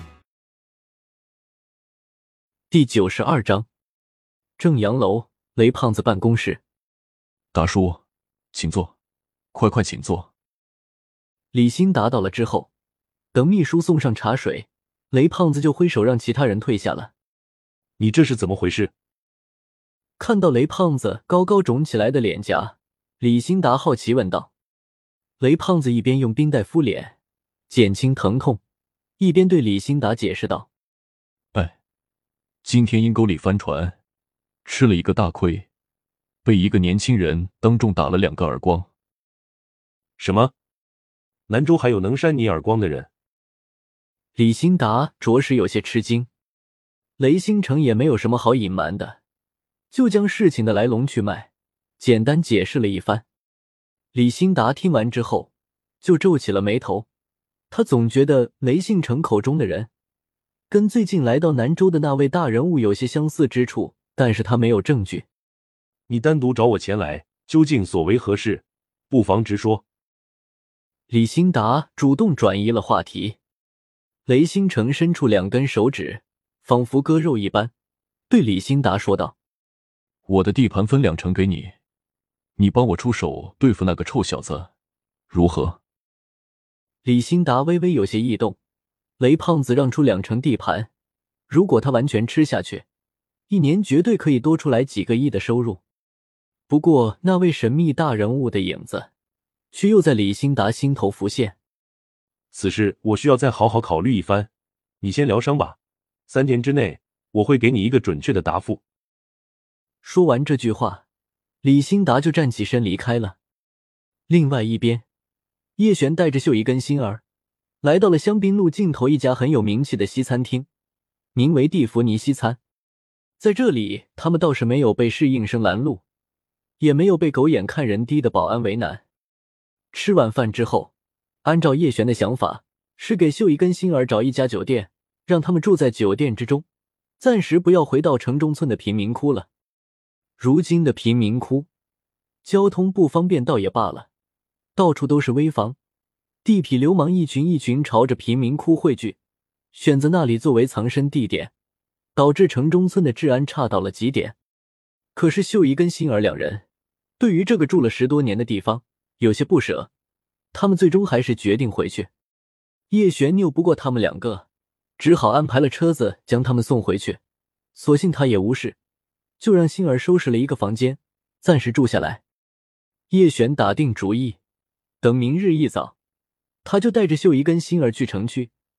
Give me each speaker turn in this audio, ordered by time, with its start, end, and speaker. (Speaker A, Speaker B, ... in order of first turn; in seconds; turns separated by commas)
Speaker A: 2.7-3.6, Speaker A: 4.6-6.6, Speaker B: 7.5-8.0, Speaker B: 8.5-8.9, Speaker B: 9.5-10.3, Speaker A: 11.5-12.7, Speaker A: 13.3-17.1, Speaker C: 18.0-18.9, Speaker A: 20.2-24.5, Speaker A: 25.4-27.1, Speaker A: 27.7-28.6, Speaker A: 29.2-30.7, Speaker B: 32.6-34.0, Speaker B: 34.6-35.6, Speaker B: 36.4-38.9, Speaker C: 40.2-40.5, Speaker C: 41.5-43.1, Speaker A: 44.4-46.3, Speaker A: 47.2-49.2, Speaker A: 49.9-51.5, Speaker A: 52.0-53.2, Speaker A: 54.1-55.5, Speaker A: 56.0-57.0, Speaker A: 57.7-59.9, Speaker A: 60.7-65.2, Speaker C: 66.1-69.8, Speaker A: 71.1-73.4, Speaker A: 74.3-77.7, Speaker A: 78.3-79.3, Speaker B: 80.3-81.7, Speaker B: 82.6-84.7, Speaker B: 85.3-85.8, Speaker A: 87.0-88.6, Speaker A: 89.2-90.9, Speaker A: 91.5-92.8, Speaker A: 93.5-95.8, Speaker A: 96.7-99.1, Speaker A: 99.7-101.5, Speaker C: 102.5-108.8, Speaker A: 110.0-111.0, Speaker A: 111.6-113.3, Speaker A: 114.3-115.0, Speaker A: 115.8-117.2, Speaker A: 117.8-120.7, Speaker A: 121.3-122.6, Speaker A: 123.4-126.0, Speaker A: 126.8-129.0, Speaker A: 129.9-130.9, Speaker A: 131.4-136.6, Speaker A: 137.2-139.5, Speaker A: 140.4-141.7, Speaker A: 142.4-144.1, Speaker A: 144.8-145.8, Speaker A: 146.4-149.2, Speaker A: 149.7-151.5, Speaker A: 152.2-154.3, Speaker A: 155.2-156.6, Speaker A: 157.2-159.9, Speaker A: 160.5-162.1, Speaker A: 162.9-164.4, Speaker A: 165.0-167.2, Speaker A: 167.8-168.7, Speaker A: 169.4-172.2, Speaker A: 173.1-174.4, Speaker A: 175.0-175.9, Speaker A: 176.6-178.5